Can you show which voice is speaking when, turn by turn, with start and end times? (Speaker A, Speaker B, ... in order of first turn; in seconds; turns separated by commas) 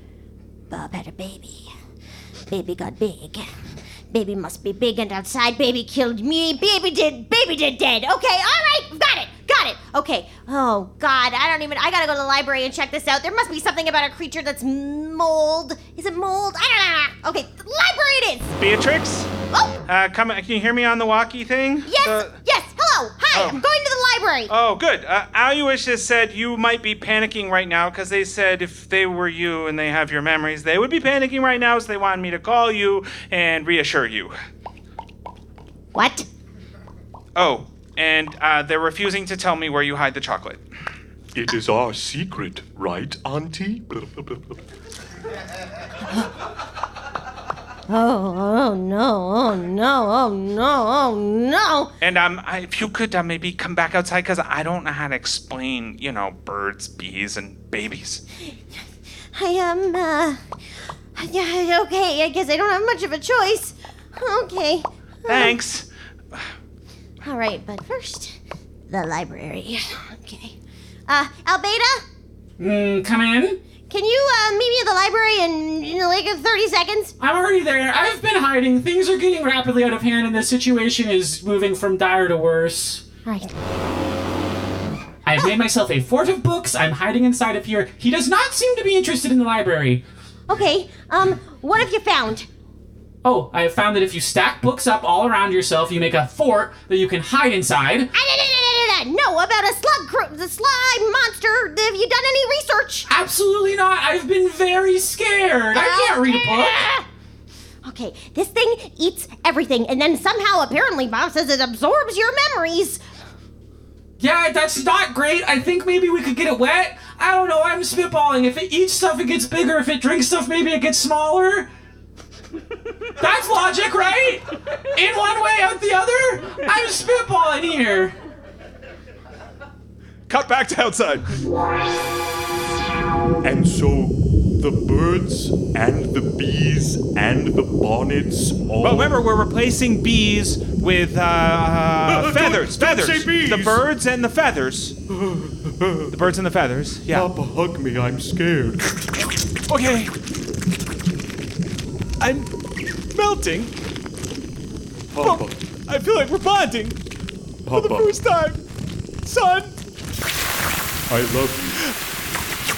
Speaker A: 0.7-1.7, Speaker A: 2.5-3.5, Speaker A: 4.1-18.6, Speaker B: 18.6-19.3, Speaker A: 19.5-19.8, Speaker B: 19.9-22.4, Speaker A: 21.9-24.5, Speaker B: 23.3-23.6, Speaker B: 24.5-34.4, Speaker A: 36.0-36.3, Speaker B: 37.4-40.6, Speaker C: 41.3-44.6, Speaker A: 47.9-51.9, Speaker B: 52.0-58.2, Speaker A: 59.3-60.4, Speaker A: 61.1-65.6, Speaker B: 65.3-66.4, Speaker A: 67.2-68.4, Speaker A: 68.9-70.5, Speaker A: 71.1-72.0, Speaker D: 72.6-73.6, Speaker A: 73.9-77.1, Speaker D: 77.2-83.0, Speaker A: 83.3-83.5, Speaker D: 85.2-90.0, Speaker A: 90.5-92.5, Speaker D: 93.2-98.1, Speaker A: 98.1-103.1, Speaker D: 103.1-106.8, Speaker A: 105.7-107.1, Speaker A: 107.8-113.0, Speaker D: 114.2-121.7, Speaker D: 123.2-128.2, Speaker B: 130.3-131.4, Speaker C: 133.4-139.2, Speaker B: 138.8-145.0, Speaker C: 142.1-143.8, Speaker C: 145.1-146.2, Speaker B: 146.1-147.3, Speaker C: 147.1-149.2, Speaker B: 149.7-150.1, Speaker B: 152.2-152.5, Speaker B: 153.1-153.8, Speaker C: 155.1-155.6, Speaker B: 155.2-157.0, Speaker C: 157.7-158.2, Speaker B: 157.7-158.6, Speaker B: 159.2-159.7, Speaker C: 161.1-161.8